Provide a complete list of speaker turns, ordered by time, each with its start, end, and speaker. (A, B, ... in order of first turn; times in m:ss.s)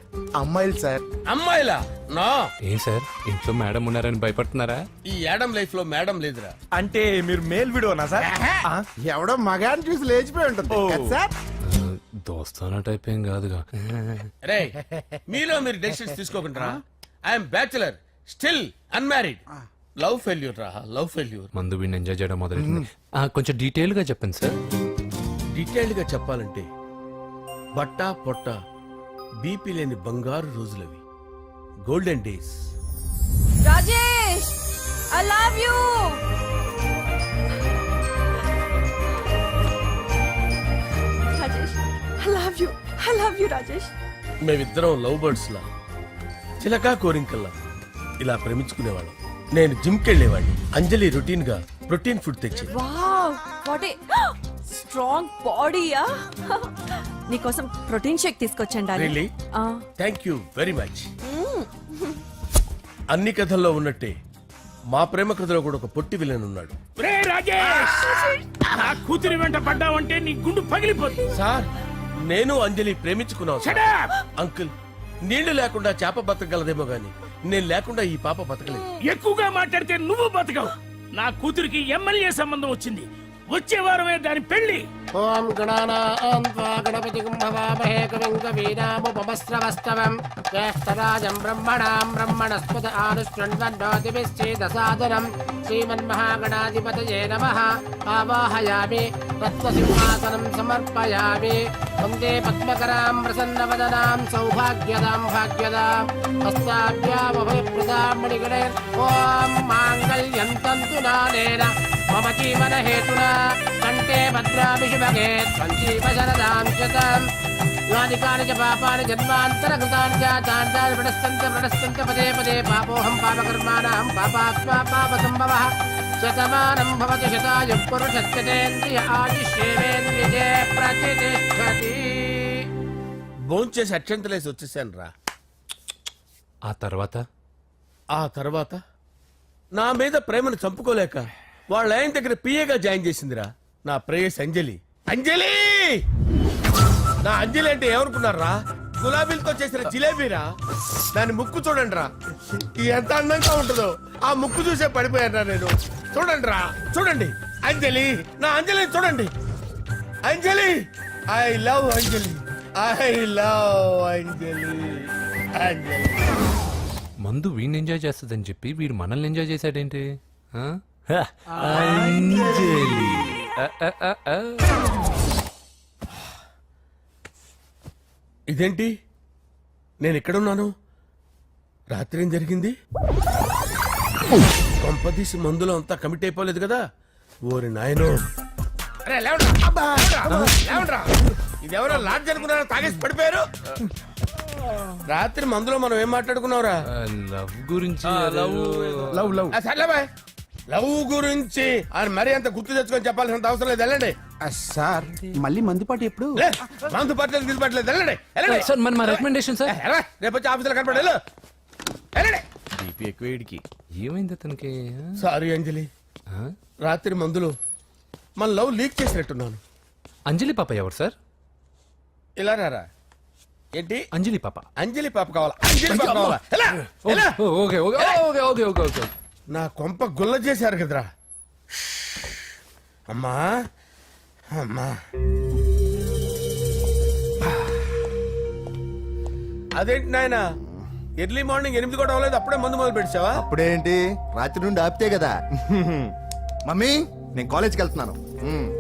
0:00.4-0:01.0 A
0:01.3-0:02.5 B
0:02.6-0:04.8 C
0:05.1-0:06.5 B
0:06.8-0:11.3 A
0:08.2-0:08.6 B
0:11.6-0:14.3 C
0:14.4-0:14.8 B
0:15.3-0:19.4 B
0:20.0-0:21.5 B
0:21.6-0:24.5 C
0:25.6-0:26.7 B
0:27.8-0:28.6 B
0:29.4-0:31.0 B
0:31.9-0:32.6 B
0:33.6-0:34.5 D
0:35.1-0:36.2 D
0:41.3-0:43.9 D
0:44.4-0:45.7 B
0:46.6-0:47.5 B
0:48.2-0:52.7 B
0:52.7-0:59.8 D
0:59.0-0:59.3 B
1:00.0-1:01.1 B
1:01.2-1:02.2 D
1:03.1-1:04.2 B
1:04.9-1:06.8 B
1:08.0-1:08.4 D
1:09.2-1:11.0 E
1:11.3-1:11.7 B
1:12.3-1:13.9 B
1:14.4-1:14.7 B
1:15.2-1:18.9 B
1:20.0-1:20.5 E
1:21.2-1:23.0 E
1:23.6-1:23.9 E
1:25.2-1:45.9 F
1:46.5-1:53.3 F
1:53.8-1:57.2 F
1:57.9-2:05.7 F
2:06.2-2:12.6 F
2:13.5-2:15.1 B
2:16.7-2:17.2 C
2:18.2-2:18.8 B
2:19.8-2:26.0 B
2:27.2-2:30.5 B
2:31.2-2:32.1 B
2:32.8-2:39.3 B
2:40.3-2:46.3 B
2:47.2-2:54.8 C
2:58.5-2:58.9 B
3:00.0-3:00.7 B
3:01.9-3:02.8 B
3:04.8-3:06.8 B
3:07.5-3:08.2 B
3:09.0-3:13.5 B
3:10.3-3:10.5 C
3:15.1-3:16.8 B
3:16.9-3:19.5 C
3:18.1-3:20.1 B
3:20.7-3:24.2 B
3:24.4-3:26.4 A
3:26.4-3:31.2 B
3:28.5-3:29.7 C
3:32.2-3:32.4 B
3:34.0-3:35.2 C
3:35.2-3:35.9 B
3:36.8-3:37.5 B
3:38.4-3:39.6 B
3:40.3-3:41.2 C
3:42.4-3:42.9 B
3:43.8-3:44.0 B
3:44.2-3:44.6 C
3:44.8-3:47.4 B
3:45.9-3:46.4 C
3:47.0-3:49.1 C
3:49.5-3:51.1 B
3:51.8-3:52.4 B
3:53.1-3:53.5 B
3:54.5-3:55.0 B
3:59.8-4:00.4 B
4:01.2-4:03.4 B
4:03.4-4:06.1 G
4:06.7-4:08.7 G